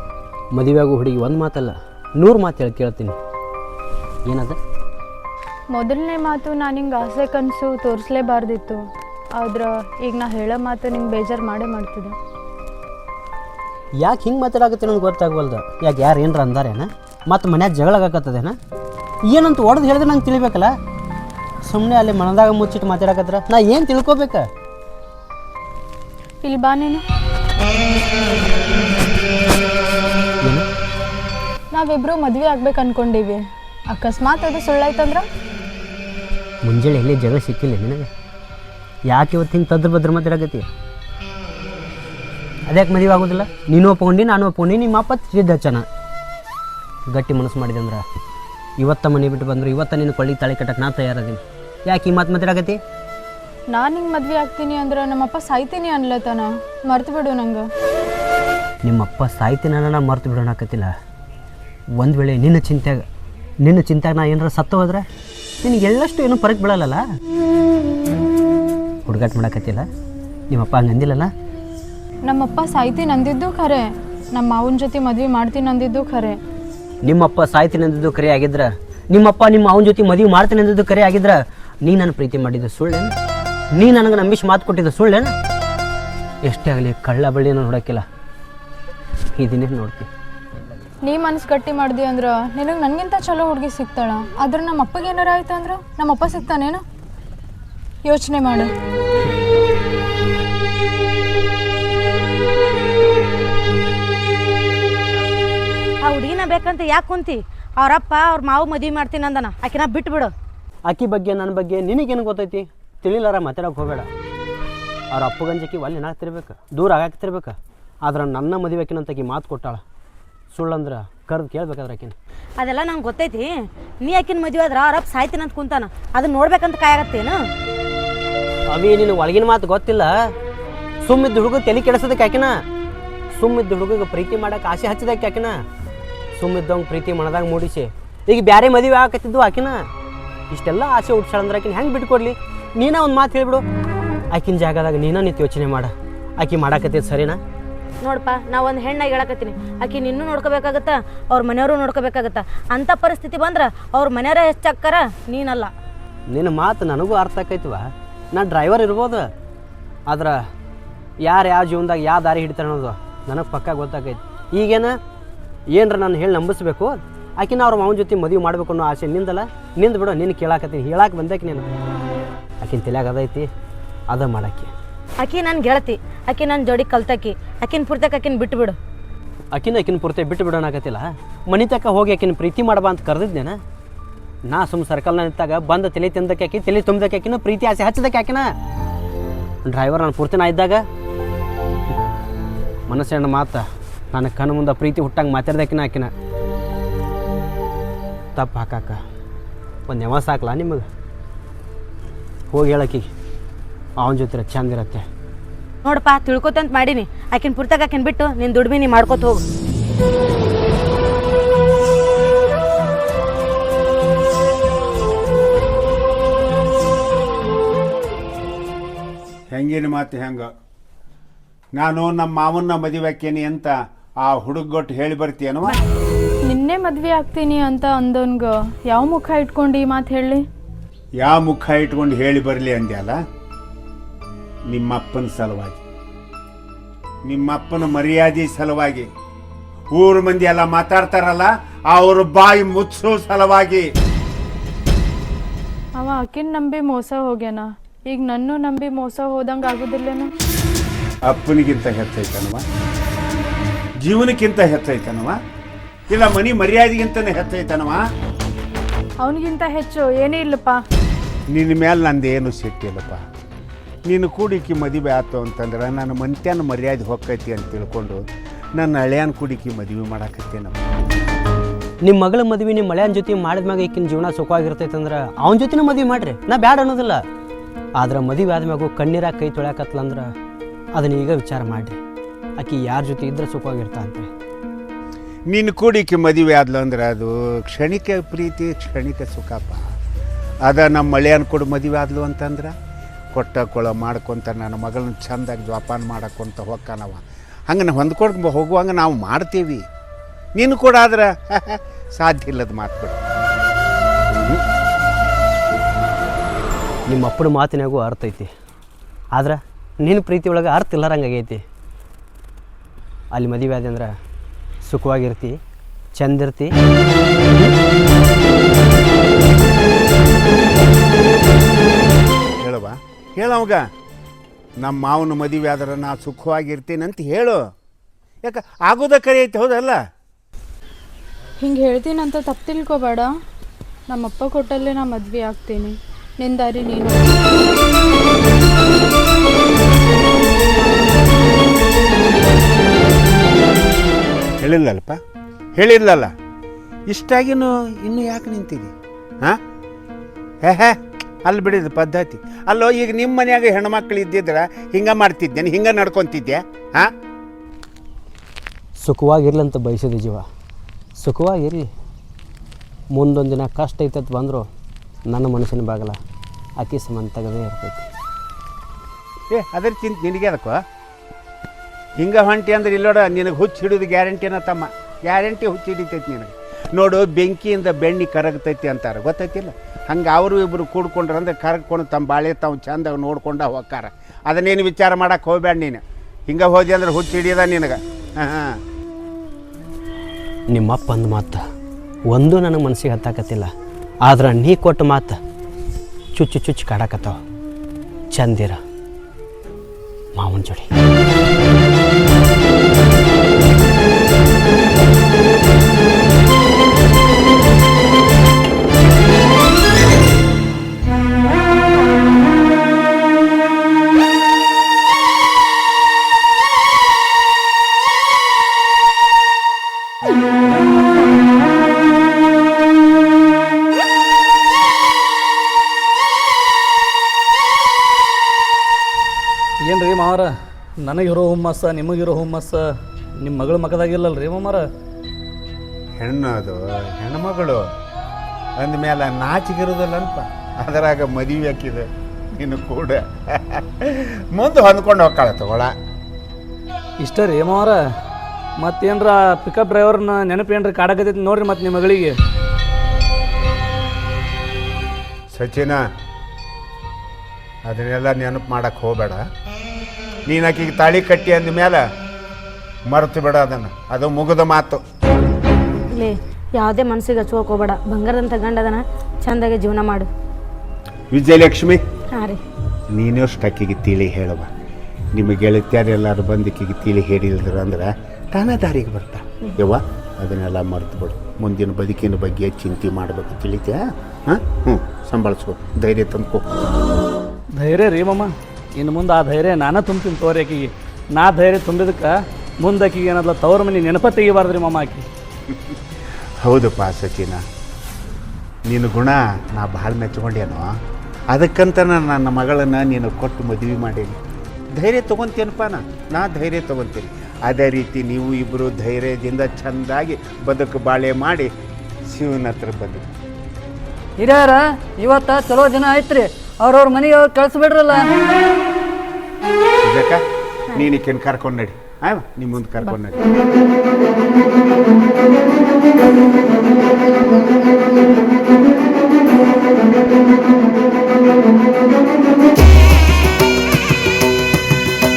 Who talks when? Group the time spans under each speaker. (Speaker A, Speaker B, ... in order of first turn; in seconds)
Speaker A: 0.5-3.1, 4.2-4.6, 14.0-18.6, 19.2-20.7, 21.6-24.4, 36.6-38.1, 39.1-40.7, 42.7-45.8, 47.1-48.0, 48.8-52.8, 58.8-60.9, 62.0-63.0, 63.6-65.0, 65.6-67.0, 69.0-69.9, 70.5-71.3, 77.0-83.1, 83.7-85.3, 86.4-88.0, 89.4-90.1, 110.8-114.1, 115.1-119.8, 120.5-122.1, 128.7-130.1, 131.0-132.6, 133.3-135.6, 136.4-139.8, 140.5-143.6, 144.3-147.4, 156.3-159.3, 160.1-160.4, 161.2-164.9, 165.7-171.7, 172.6-173.5, 174.1-174.7, 179.5-183.6, 184.5-188.5, 189.6-190.8, 192.9-196.1, 198.3-199.0, 199.9-200.8, 202.5-203.1, 204.0-205.0, 272.0-277.2, 278.0-280.3, 280.9-282.0, 282.6-284.3, 307.1-308.5, 309.4-311.6, 313.3-314.1, 314.8-315.6, 316.1-316.7, 359.0-360.4, 361.2-361.9, 363.1-364.6, 365.3-366.2, 366.8-368.1, 390.7-391.6, 392.3-393.7, 394.2-395.4, 396.3-397.4, 398.3-398.8, 400.4-400.9
Speaker B: 5.7-8.8, 9.4-12.2, 26.4-27.0, 31.7-35.2, 53.7-57.6, 72.2-76.4, 91.0-96.8, 98.0-98.7, 226.4-230.4, 245.9-250.3, 259.2-260.8, 331.6-333.3, 334.1-337.2
Speaker C: 106.0-110.3, 122.6-123.5, 124.0-127.3, 148.0-155.7, 175.2-178.7, 205.9-209.4, 466.2-470.3, 472.3-472.6
Speaker D: 219.5-220.5, 221.8-223.7, 224.2-225.8, 231.2-233.2, 234.7-235.8, 237.2-239.1, 239.9-243.8, 251.3-252.6, 254.0-255.4, 256.1-258.0, 261.5-263.2, 264.1-268.2, 268.8-270.8, 285.5-289.8, 290.7-292.7, 293.3-299.8, 300.6-303.2, 304.3-304.6, 322.6-323.8, 324.8-327.6, 328.4-330.0, 344.6-345.2, 345.8-346.3, 347.1-349.6, 350.6-357.1, 369.5-370.8, 372.2-388.7, 436.2-437.9, 438.8-445.9, 455.5-456.0, 457.9-459.4, 460.5-462.0, 463.1-465.0, 471.3-472.0, 473.1-474.7, 475.3-486.6, 496.6-497.6, 498.9-500.9, 501.5-504.4, 504.9-511.7, 512.3-513.3, 520.0-520.4, 520.9-523.4
Speaker E: 429.9-430.5, 431.0-432.8, 433.4-434.8, 447.2-448.0, 448.8-452.3, 487.8-492.3, 492.8-495.2
Speaker F: 514.4-518.3